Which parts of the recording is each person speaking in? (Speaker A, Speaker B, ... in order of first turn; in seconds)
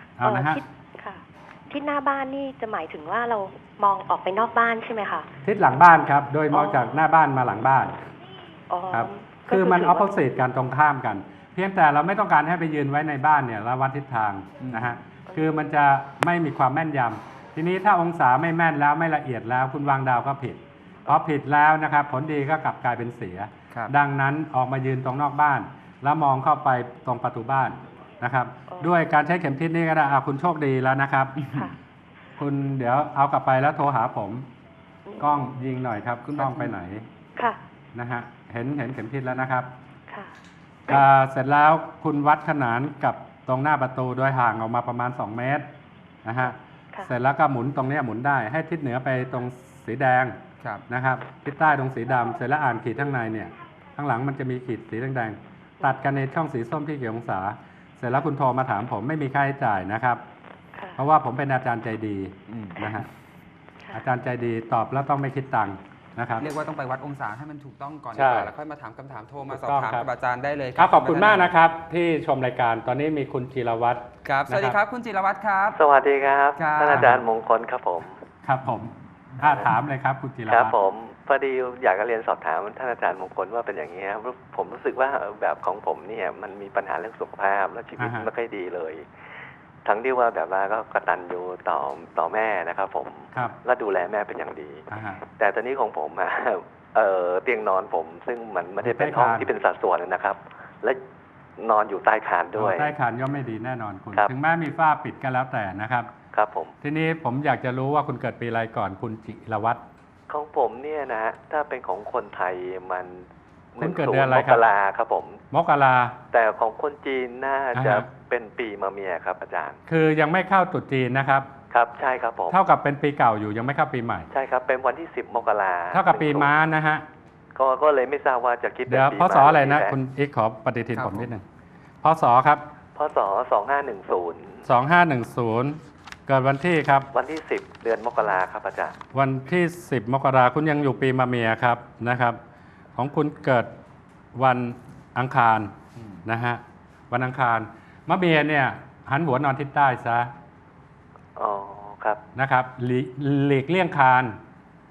Speaker A: 0.2-0.6, 5.4-7.9, 8.9-31.4, 32.4-34.5, 35.2-37.1, 37.9-39.7, 40.9-45.6, 46.2-50.4, 50.9-60.2, 61.0-63.1, 63.9-66.5, 68.1-68.5, 69.5-70.0, 70.8-74.8, 76.9-77.2, 78.4-80.8, 88.0-88.3, 94.9-95.2, 98.8-99.5, 102.5-106.1, 106.8-109.8, 113.8-114.6, 115.5-116.2, 117.7-118.1, 119.9-121.5, 122.5-124.3, 125.9-127.0, 128.9-131.4, 132.0-132.6, 134.6-137.1, 139.1-142.4, 142.9-143.7, 144.3-145.7, 146.2-150.3, 152.3-154.3
Speaker B: 0.2-5.3, 6.5-6.9, 8.7-10.1, 37.4-37.6, 60.7-61.0
Speaker C: 14.6-14.9, 36.3-36.7, 62.5-63.0, 66.4-71.5, 74.2-75.8, 76.5-77.1, 130.9-131.3
Speaker D: 75.7-78.1, 80.5-89.0, 89.8-94.8, 95.4-101.0, 101.6-102.9, 106.3-106.7, 110.3-113.2, 113.7-115.4, 116.3-119.8, 121.7-122.6, 124.3-126.5, 127.5-129.9, 132.9-134.6, 137.1-138.9, 151.3-152.2